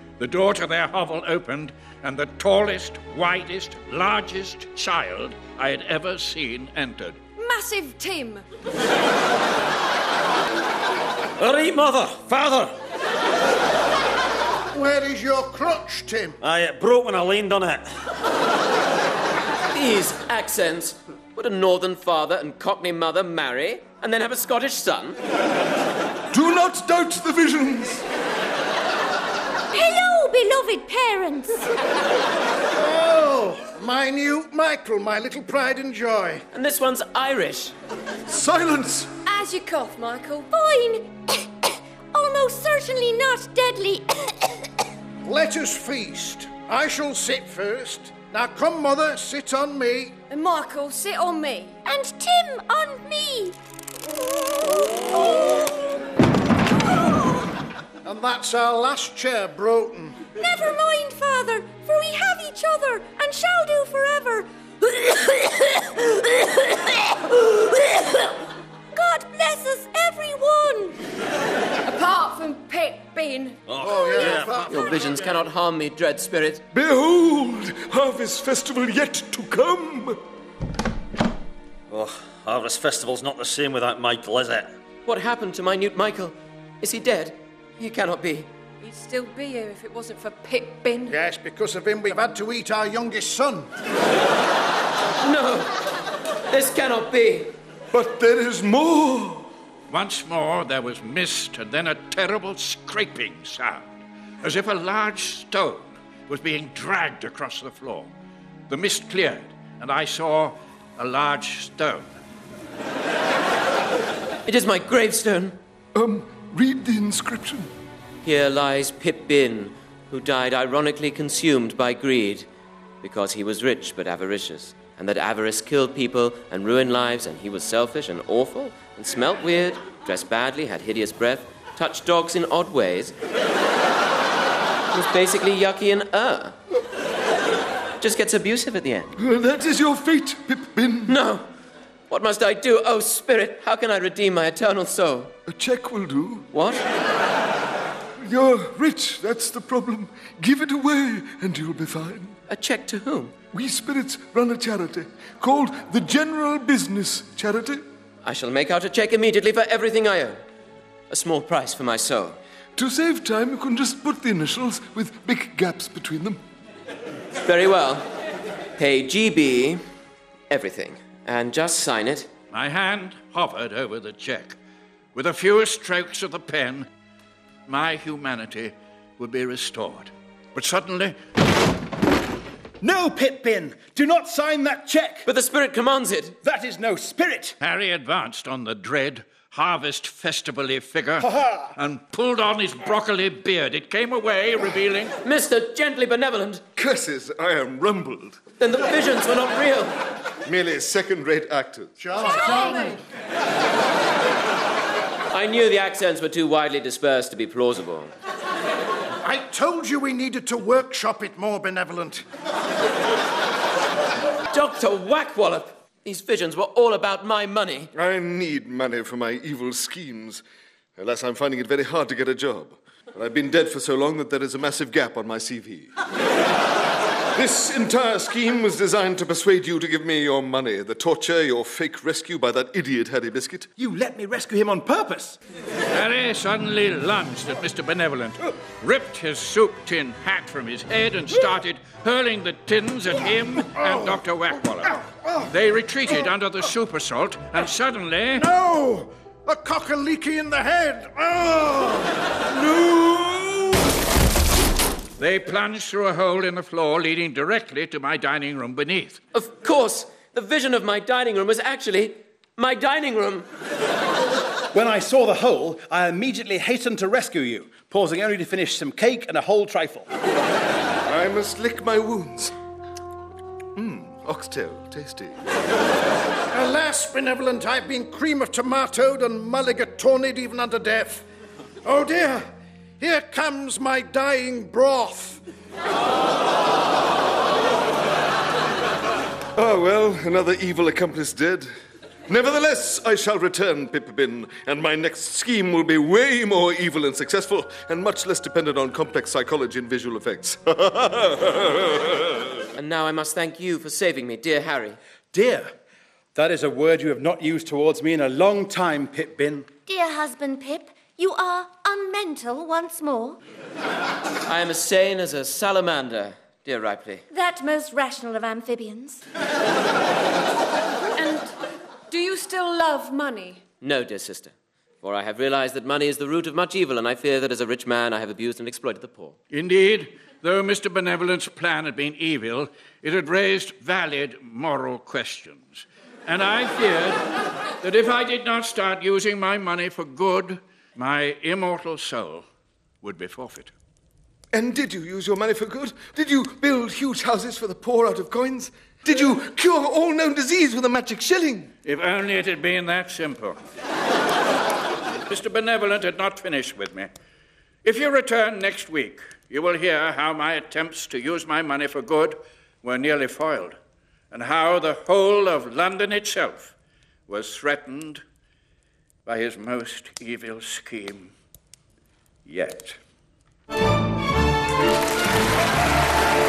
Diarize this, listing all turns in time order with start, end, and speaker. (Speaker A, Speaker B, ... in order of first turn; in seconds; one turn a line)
Speaker A: 0.2-7.2
Speaker B: 7.4-8.4
Speaker C: 11.4-12.7
Speaker D: 14.7-16.4
Speaker C: 16.4-17.9
Speaker E: 19.7-25.2
Speaker F: 26.3-28.0
Speaker G: 29.7-31.6
Speaker D: 32.7-36.4
Speaker E: 36.5-37.7
Speaker F: 38.3-39.1
Speaker B: 39.2-40.5
Speaker G: 40.5-44.6
Speaker D: 45.2-50.2
Speaker B: 50.3-51.8
Speaker G: 51.8-53.5
Speaker G: 54.2-56.0
Speaker G: 56.9-57.5
Speaker D: 58.0-60.3
Speaker G: 60.4-68.3
Speaker G: 68.9-71.0
Speaker B: 71.8-74.4
Speaker C: 73.7-74.8
Speaker D: 73.8-75.2
Speaker E: 74.5-76.6
Speaker F: 76.7-80.2
Speaker C: 81.9-84.7
Speaker E: 85.0-88.5
Speaker B: 88.8-91.2
Speaker D: 91.1-93.7
Speaker E: 95.2-95.7
Speaker E: 96.5-97.5
Speaker F: 97.9-99.5
Speaker A: 99.9-103.8
Speaker A: 104.4-108.1
Speaker A: 108.7-112.1
Speaker E: 114.5-115.6
Speaker F: 115.9-117.7
Speaker E: 118.2-122.5
Speaker E: 123.0-133.1
Speaker E: 134.9-136.5
Speaker E: 138.0-139.1
Speaker F: 139.2-141.1
Speaker E: 141.1-141.5
Speaker E: 142.1-145.3
Speaker F: 145.5-146.5
Speaker E: 146.5-146.8
Speaker F: 148.2-152.3
Speaker E: 152.5-153.3
Speaker F: 153.5-157.8
Speaker E: 158.2-160.4
Speaker E: 161.1-162.4
Speaker F: 162.8-166.4
Speaker E: 167.3-168.1
Speaker E: 168.8-169.8
Speaker E: 170.5-172.3
Speaker A: 172.5-174.6
Speaker A: 175.1-176.9
Speaker A: 177.7-181.2
Speaker H: 182.8-185.2
Speaker E: 185.2-186.3
Speaker H: 186.4-187.6
Speaker A: 187.6-195.2
Speaker H: 191.2-191.7
Speaker E: 195.2-196.6
Speaker F: 196.8-198.4
Speaker E: 198.6-200.0
Speaker F: 200.4-202.0
Speaker D: 202.0-203.0
Speaker B: 202.3-202.9
Speaker E: 205.3-208.1
Speaker D: 209.2-212.2
Speaker E: 214.5-217.9
Speaker F: 217.9-220.4
Speaker F: 221.0-225.9
Speaker F: 227.3-233.7
Speaker H: 233.8-235.4
Speaker A: 235.9-248.5
Speaker D: 243.7-244.1
Speaker D: 248.3-252.3
Speaker F: 252.5-253.8
Speaker A: 255.2-259.2
Speaker E: 259.3-263.5
Speaker H: 264.7-270.1
Speaker F: 271.1-272.5
Speaker F: 273.8-275.4
Speaker D: 276.5-281.2
Speaker D: 281.8-282.4
Speaker D: 283.0-285.4
Speaker F: 289.5-291.7
Speaker F: 292.3-302.4
Speaker E: 302.7-305.0
Speaker H: 305.3-305.7
Speaker H: 306.3-309.7
Speaker G: 309.9-313.4
Speaker E: 314.4-317.2
Speaker G: 317.3-319.2
Speaker B: 321.1-321.5
Speaker B: 322.1-323.6
Speaker E: 323.8-329.4
Speaker A: 329.5-337.2
Speaker A: 337.8-342.4
Speaker A: 343.0-343.7
Speaker F: 344.5-351.7
Speaker A: 351.8-353.6
Speaker A: 355.3-357.1
Speaker A: 357.8-363.8
Speaker A: 364.3-366.7
Speaker A: 367.3-368.2
Speaker A: 369.2-371.3
Speaker A: 372.4-373.0